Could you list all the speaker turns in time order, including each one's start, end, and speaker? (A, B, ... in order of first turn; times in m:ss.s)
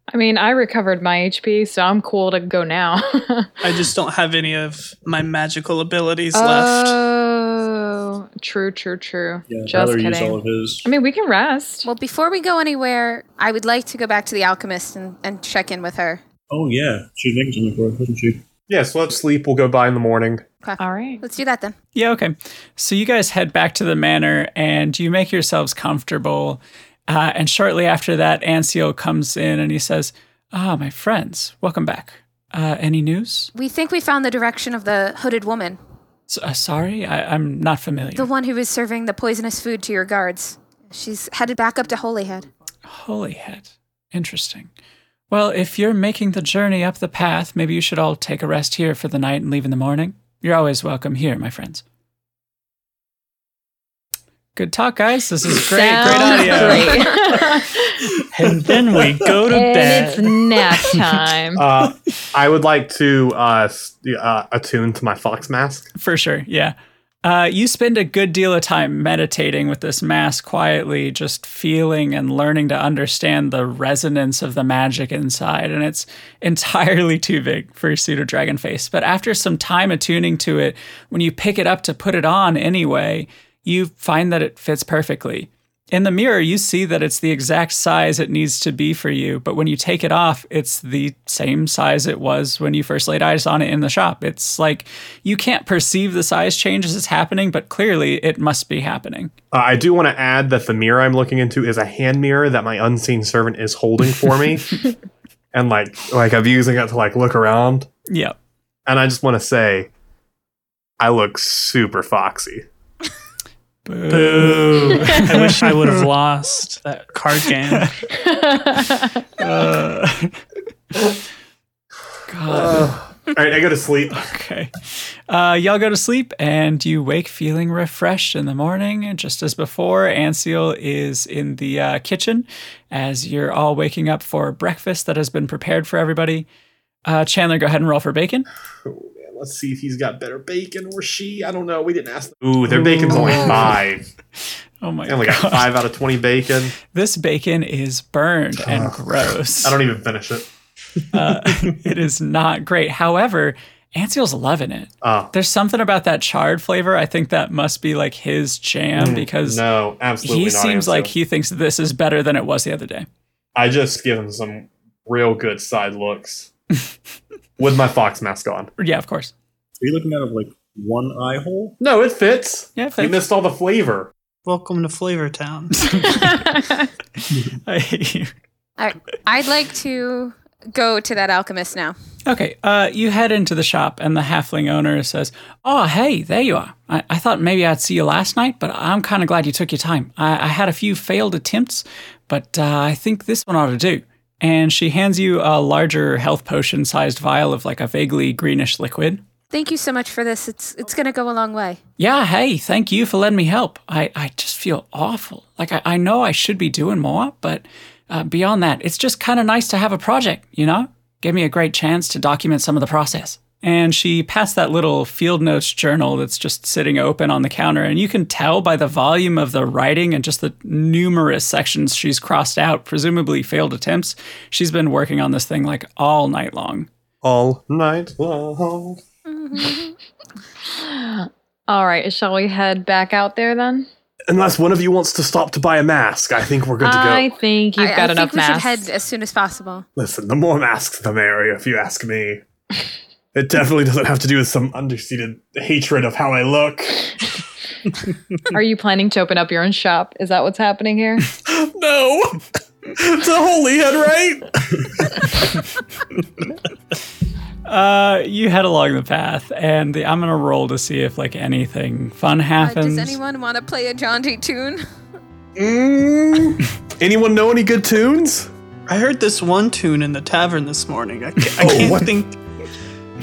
0:00.1-0:03.8 A
0:03.6-0:07.0 B
0:06.3-0:11.9 A
0:09.5-0:10.9 C
0:11.9-0:16.2 D
0:16.5-0:18.4 C
0:18.7-0:20.4 E
0:20.6-0:21.7 D
0:20.8-0:21.2 A
0:21.9-0:33.5 F
0:33.5-0:35.8 D
0:36.3-0:38.3 F
0:38.2-0:42.5 D
0:42.9-0:44.7 F
0:45.3-0:51.8 F
0:54.6-0:57.2 F
0:55.6-0:58.0 A
0:58.3-1:00.9 B
0:59.5-1:01.6 A
1:01.5-1:05.9 E
1:06.0-1:39.3 F
1:39.5-1:44.9 E
1:45.5-1:47.9 E
1:48.1-1:48.4 F
1:48.8-1:49.9 E
1:51.0-1:52.6 E
1:53.8-1:56.1 F
1:54.1-1:58.0 B
1:57.7-1:58.0 F
1:58.2-1:59.2 A
1:59.4-2:00.4 F
2:02.3-2:03.0 F
2:02.5-2:04.3 E
2:04.1-2:16.4 F
2:17.0-2:18.5 F
2:18.8-2:24.1 E
2:23.1-2:23.4 F
2:24.8-2:25.8 F
2:25.1-2:26.8 E
2:26.9-2:29.8 F
2:28.6-2:29.0 E
2:29.6-2:30.5 E
2:31.1-2:39.6 F
2:35.0-2:35.3 E
2:38.9-2:41.1 E
2:40.2-2:43.1 F
2:43.5-2:46.5 E
2:47.6-2:48.7 E
2:48.8-2:49.3 F
2:49.8-2:51.8 C
2:51.8-2:54.1 E
2:52.8-2:53.2 F
2:54.4-2:55.8 B
2:55.8-2:56.5 F
2:56.1-2:56.7 A
2:57.5-2:58.3 F
2:58.8-3:02.0 D
3:02.2-3:19.2 F
3:19.5-3:21.8 D
3:22.0-3:46.9 F
3:47.2-3:49.0 E
3:49.2-3:50.0 D
3:50.8-3:53.9 A
3:54.3-3:57.3 E
3:56.8-3:58.9 A
3:57.8-3:59.8 D
4:00.0-4:02.4 E
4:03.3-4:07.3 E
4:08.5-4:11.3 A
4:11.4-4:15.5 E
4:17.7-4:23.2 F
4:22.6-4:24.8 D
4:25.6-4:28.5 E
4:28.9-4:32.4 B
4:31.6-4:32.1 E